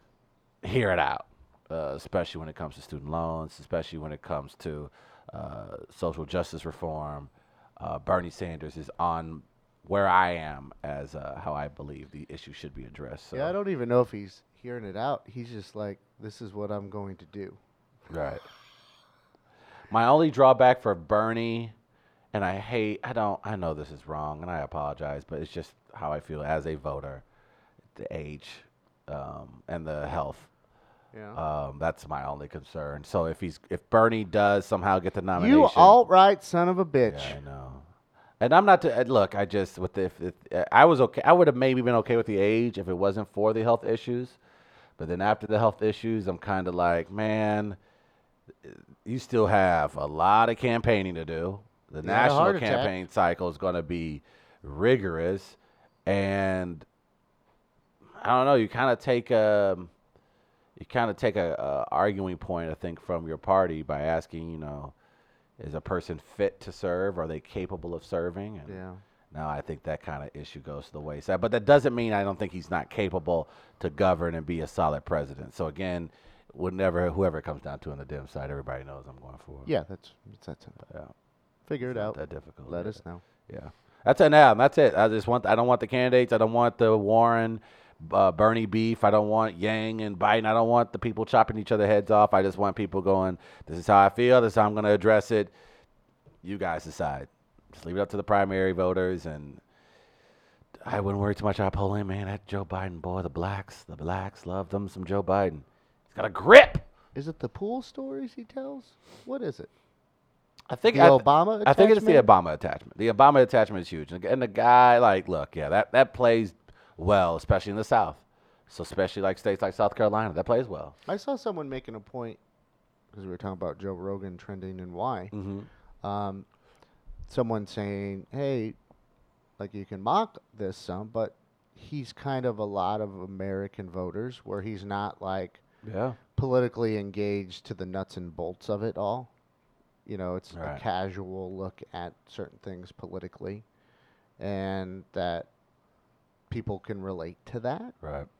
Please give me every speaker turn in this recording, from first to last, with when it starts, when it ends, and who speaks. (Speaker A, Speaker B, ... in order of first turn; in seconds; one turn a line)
Speaker A: 0.6-13.5
Speaker B: 13.3-17.6
Speaker A: 18.1-18.4
Speaker A: 19.9-21.7
Speaker A: 22.3-27.2
Speaker A: 27.9-30.5
Speaker B: 31.1-31.4
Speaker A: 31.4-36.0
Speaker B: 35.4-37.4
Speaker A: 37.1-37.9
Speaker A: 38.4-44.4
Speaker A: 45.0-47.8
Speaker A: 48.6-56.9
Speaker B: 52.0-53.0
Speaker A: 58.2-59.9
Speaker A: 60.8-64.9
Speaker A: 65.6-79.7
Speaker B: 68.7-69.0
Speaker B: 79.7-80.8
Speaker B: 81.7-83.2
Speaker A: 81.8-95.5
Speaker A: 96.4-99.6
Speaker A: 100.8-106.9
Speaker B: 107.2-109.7
Speaker A: 110.7-121.0
Speaker B: 110.9-112.3
Speaker B: 121.1-122.4
Speaker B: 123.1-125.3
Speaker A: 125.3-125.7
Speaker B: 126.0-126.5
Speaker B: 127.3-128.8
Speaker B: 129.6-135.6
Speaker A: 135.8-136.2
Speaker B: 136.3-139.3
Speaker B: 140.1-143.7
Speaker A: 140.5-140.8
Speaker B: 144.4-145.5
Speaker B: 146.5-147.9
Speaker A: 148.0-148.3